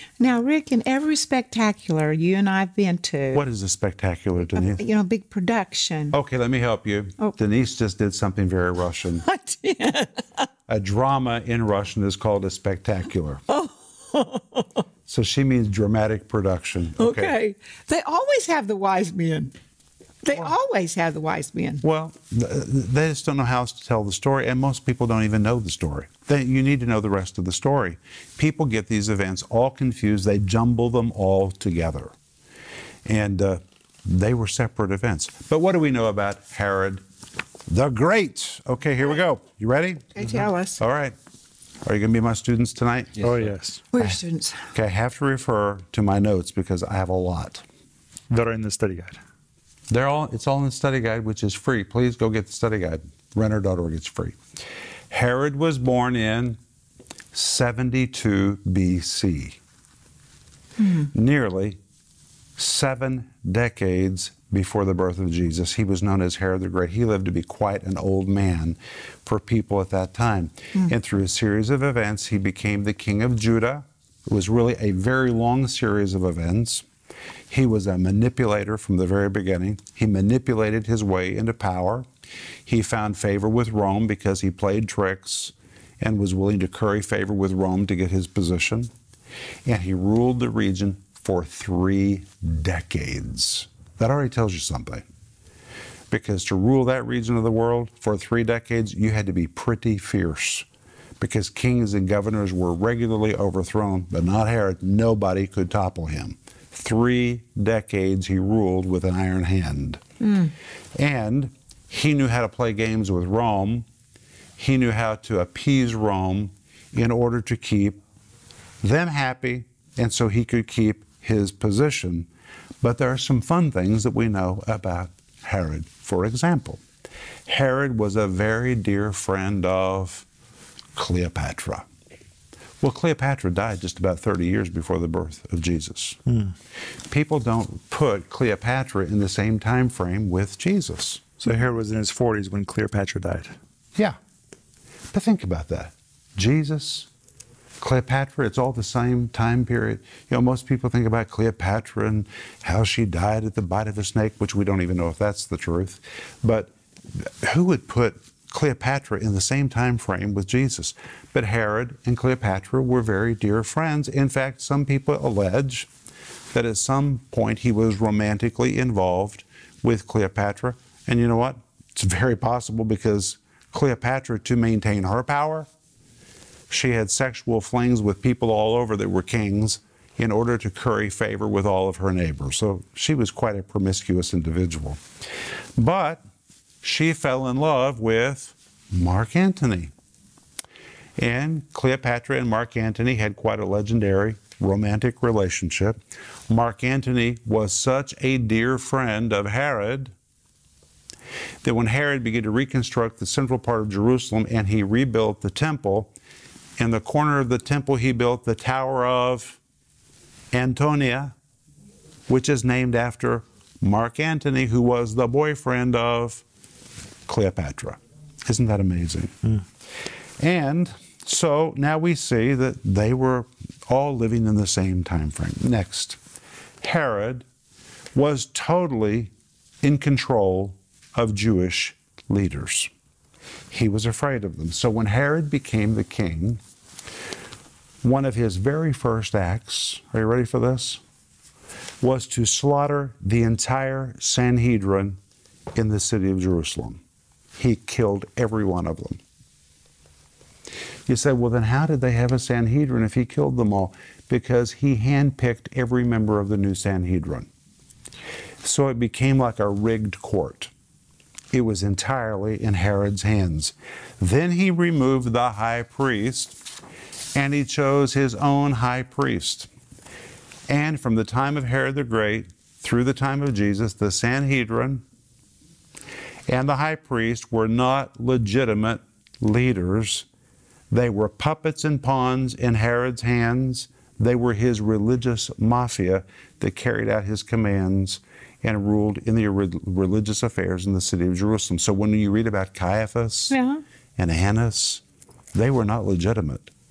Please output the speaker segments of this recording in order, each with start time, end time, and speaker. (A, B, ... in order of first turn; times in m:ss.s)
0:00.2-0:03.4 A
0:03.3-0:04.8 B
0:04.6-0:06.2 A
0:06.1-0:09.2 B
0:09.2-0:10.5 A
0:10.7-0:13.4 B
0:13.5-0:14.8 A
0:15.1-0:17.3 B
0:17.0-0:19.5 A
0:20.2-0:21.8 A
0:21.8-0:32.1 B
0:33.0-0:37.0 B
0:37.7-0:41.2 B
0:40.2-0:40.8 A
0:41.8-0:43.2 B
0:43.2-0:43.8 C
0:43.9-0:44.7 A
0:44.7-0:47.6 B
0:48.3-0:49.2 C
0:49.9-0:54.4 B
0:55.1-0:56.6 B
0:57.3-0:59.6 B
1:00.8-1:01.1 A
1:01.1-1:01.8 B
1:02.6-1:16.9 B
1:17.5-1:22.1 B
1:22.7-1:28.9 B
1:29.7-1:35.0 B
1:36.1-1:40.7 B
1:41.2-1:50.0 B
1:50.2-1:50.5 A
1:51.0-1:53.9 B
1:54.6-1:58.0 B
1:58.8-2:02.3 B
2:02.8-2:06.8 B
2:07.5-2:10.3 B
2:11.0-2:11.9 B
2:12.8-2:16.2 B
2:17.1-2:21.3 B
2:21.4-2:23.5 C
2:25.1-2:27.1 B
2:27.8-2:45.9 B
2:46.5-2:55.7 B
2:56.7-3:05.0 B
3:05.8-3:06.2 B
3:06.8-3:09.9 B
3:11.2-3:20.1 B
3:21.6-3:26.1 B
3:26.8-3:29.6 B
3:30.5-3:31.3 B
3:32.3-3:36.4 B
3:37.3-3:39.5 B
3:40.4-3:46.2 B
3:46.8-3:47.5 B
3:48.2-3:52.9 B
3:53.7-3:56.6 B
3:58.0-4:01.0 B
4:02.0-4:05.2 B
4:05.8-4:07.0 B
4:07.6-4:09.2 B
4:11.1-4:17.5 B
4:18.6-4:20.7 B
4:21.5-4:26.6 B
4:27.4-4:29.7 B
4:30.7-4:35.0 B
4:36.5-4:40.3 B
4:40.9-4:53.6 B
4:53.5-4:53.8 A
4:54.2-4:55.0 B
4:55.5-4:56.7 B